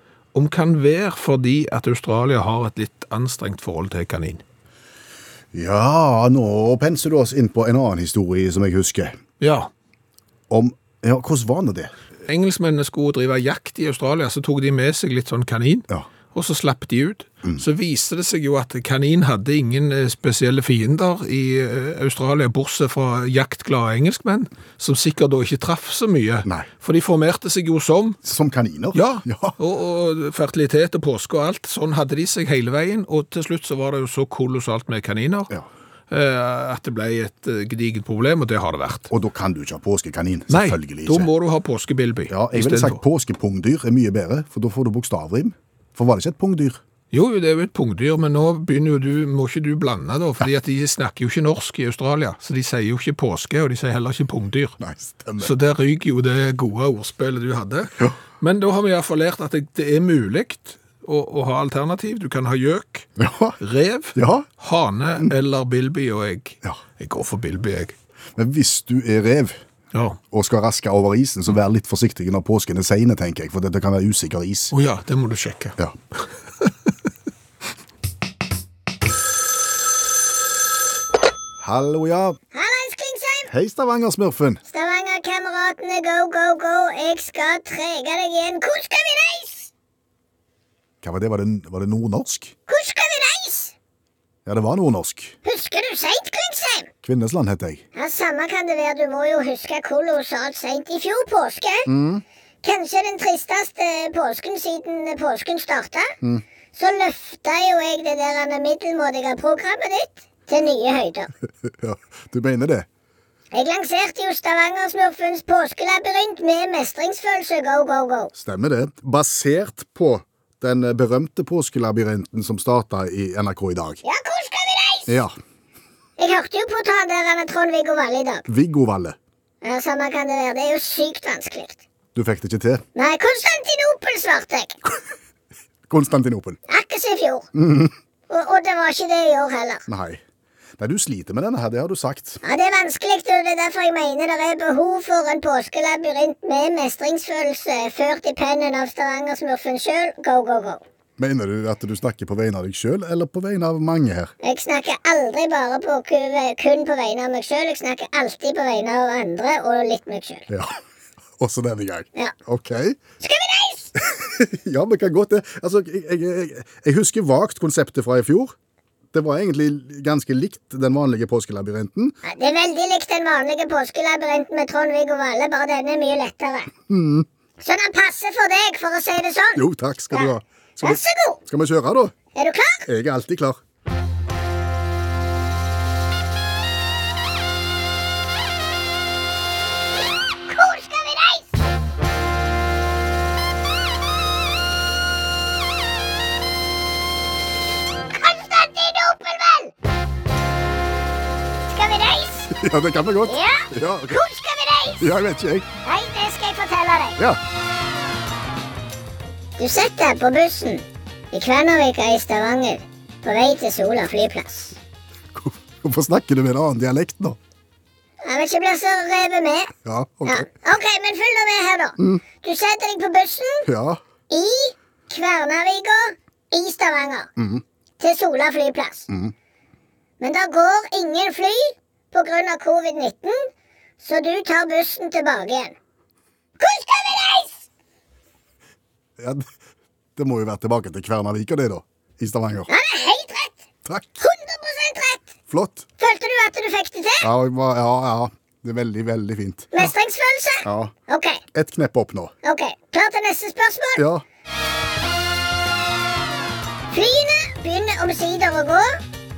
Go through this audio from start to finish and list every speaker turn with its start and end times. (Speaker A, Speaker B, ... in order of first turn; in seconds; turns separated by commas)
Speaker A: 0.3-4.4, Speaker B: 5.5-9.2, Speaker A: 9.4-9.7, Speaker B: 10.5-11.9, Speaker A: 12.3-28.2, Speaker B: 28.2-29.6, Speaker A: 28.9-35.5, Speaker A: 36.1-39.1, Speaker B: 39.1-41.3, Speaker A: 40.5-43.0, Speaker B: 42.3-46.8, Speaker A: 47.1-54.8, Speaker B: 54.8-55.5, Speaker A: 55.4-63.1, Speaker B: 63.2-63.6, Speaker A: 63.6-68.0, Speaker B: 64.2-64.5, Speaker B: 68.4-69.6, Speaker A: 69.9-70.2, Speaker B: 70.3-74.7, Speaker A: 74.7-75.8, Speaker B: 81.6-82.4, Speaker C: 82.5-83.5, Speaker B: 83.5-84.6, Speaker C: 84.7-89.7, Speaker B: 91.0-92.5, Speaker C: 92.7-93.7, Speaker B: 94.5-95.4, Speaker C: 95.5-96.9, Speaker B: 97.0-97.8, Speaker C: 98.0-101.9, Speaker B: 101.9-102.2, Speaker C: 102.6-106.1, Speaker C: 106.7-111.3, Speaker B: 111.6-112.9, Speaker C: 113.5-118.3, Speaker B: 118.3-124.0, Speaker C: 124.0-125.2, Speaker B: 125.1-125.3, Speaker C: 126.2-128.5, Speaker B: 128.5-129.2, Speaker C: 129.6-131.8, Speaker B: 132.2-132.8, Speaker C: 133.0-134.8, Speaker B: 135.9-136.6, Speaker C: 136.7-137.5, Speaker B: 137.6-137.9, Speaker C: 138.3-139.8, Speaker B: 139.9-140.2, Speaker B: 140.8-142.4, Speaker C: 142.4-150.8, Speaker B: 151.2-154.3, Speaker C: 154.4-160.5, Speaker B: 160.5-160.8, Speaker B: 161.4-163.0, Speaker C: 163.2-163.9, Speaker B: 164.0-168.6, Speaker B: 169.1-172.2, Speaker C: 172.3-176.7, Speaker B: 176.9-177.3, Speaker C: 177.6-180.3, Speaker B: 179.6-182.1, Speaker C: 180.8-181.4, Speaker C: 182.3-182.8, Speaker B: 182.9-183.6, Speaker C: 190.5-191.5, Speaker C: 198.1-199.7, Speaker C: 201.7-202.5, Speaker B: 202.5-204.2, Speaker C: 203.3-205.0, Speaker B: 205.0-205.7, Speaker C: 205.8-207.2, Speaker C: 209.6-214.8, Speaker B: 215.3-217.4, Speaker C: 218.2-219.7, Speaker B: 219.8-220.5, Speaker C: 220.3-223.7, Speaker B: 223.7-224.0, Speaker C: 224.3-227.3, Speaker B: 227.4-227.6, Speaker C: 228.0-229.1, Speaker C: 230.2-233.5, Speaker C: 234.0-235.8, Speaker C: 236.6-237.6, Speaker B: 239.2-239.5, Speaker B: 240.2-242.7, Speaker C: 242.7-243.6, Speaker B: 243.8-244.2, Speaker C: 244.2-245.3, Speaker B: 245.5-245.9, Speaker C: 246.0-247.3, Speaker B: 247.2-249.9, Speaker C: 249.7-251.4, Speaker B: 250.6-250.9, Speaker B: 251.5-252.3, Speaker C: 252.4-254.1, Speaker B: 254.0-254.2, Speaker C: 256.9-259.0